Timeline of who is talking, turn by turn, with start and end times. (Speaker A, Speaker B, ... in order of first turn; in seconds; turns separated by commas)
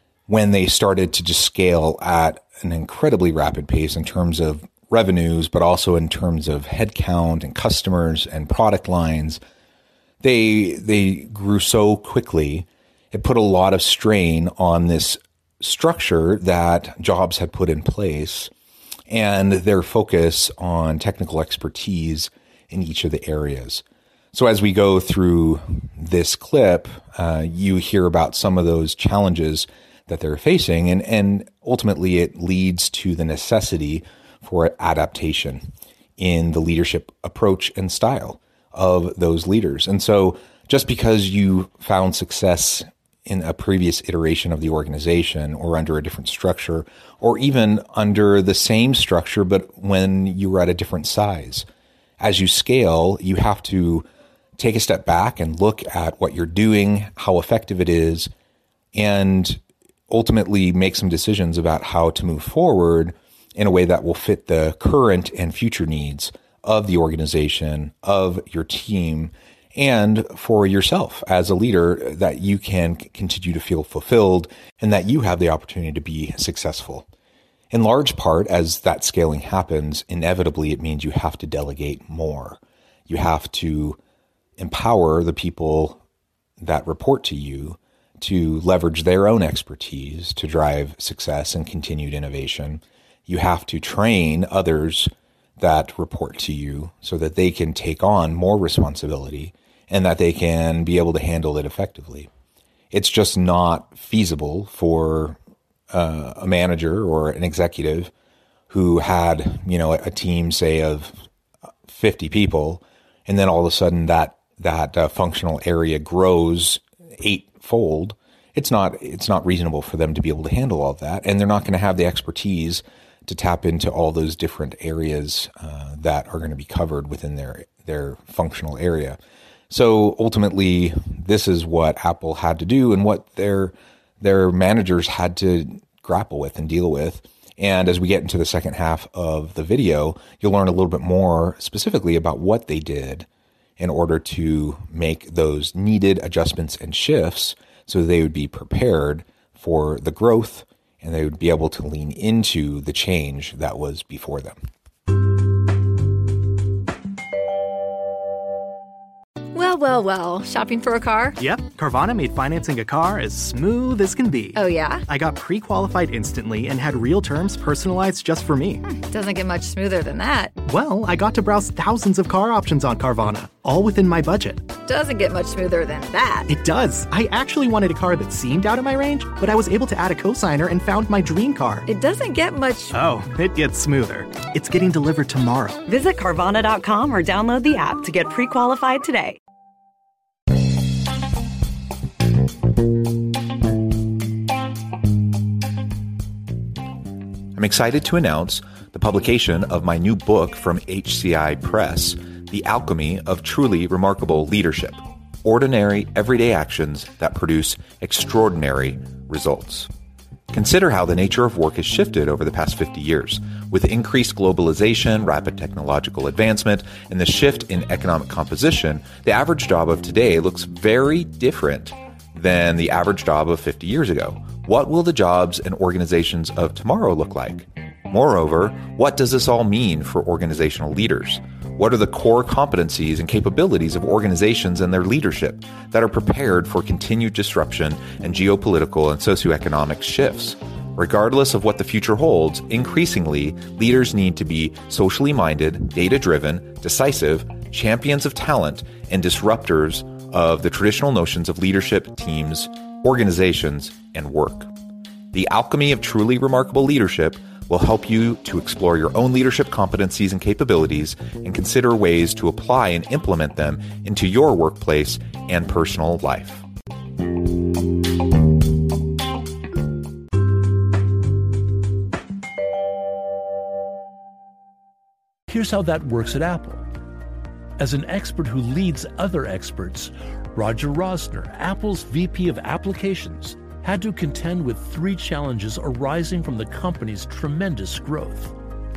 Speaker A: 0.3-9.4, Speaker A: 10.2-18.5, Speaker A: 19.1-51.6, Speaker A: 52.2-54.0, Speaker A: 54.6-58.3, Speaker A: 58.9-77.1, Speaker A: 77.7-84.0, Speaker A: 84.6-86.0, Speaker A: 86.6-102.3, Speaker A: 102.9-105.4, Speaker A: 105.9-108.1, Speaker A: 108.7-111.2, Speaker A: 111.8-129.2, Speaker A: 129.7-143.3, Speaker A: 143.8-154.6, Speaker B: 159.5-161.4, Speaker C: 161.4-168.8, Speaker B: 164.6-165.0, Speaker B: 168.9-170.5, Speaker C: 170.6-174.7, Speaker B: 174.8-176.5, Speaker C: 176.5-181.9, Speaker B: 181.9-182.9, Speaker C: 182.9-185.8, Speaker D: 185.9-189.4, Speaker A: 197.5-209.9, Speaker A: 210.5-254.7, Speaker A: 255.3-266.6, Speaker E: 275.5-276.8, Speaker E: 277.8-288.5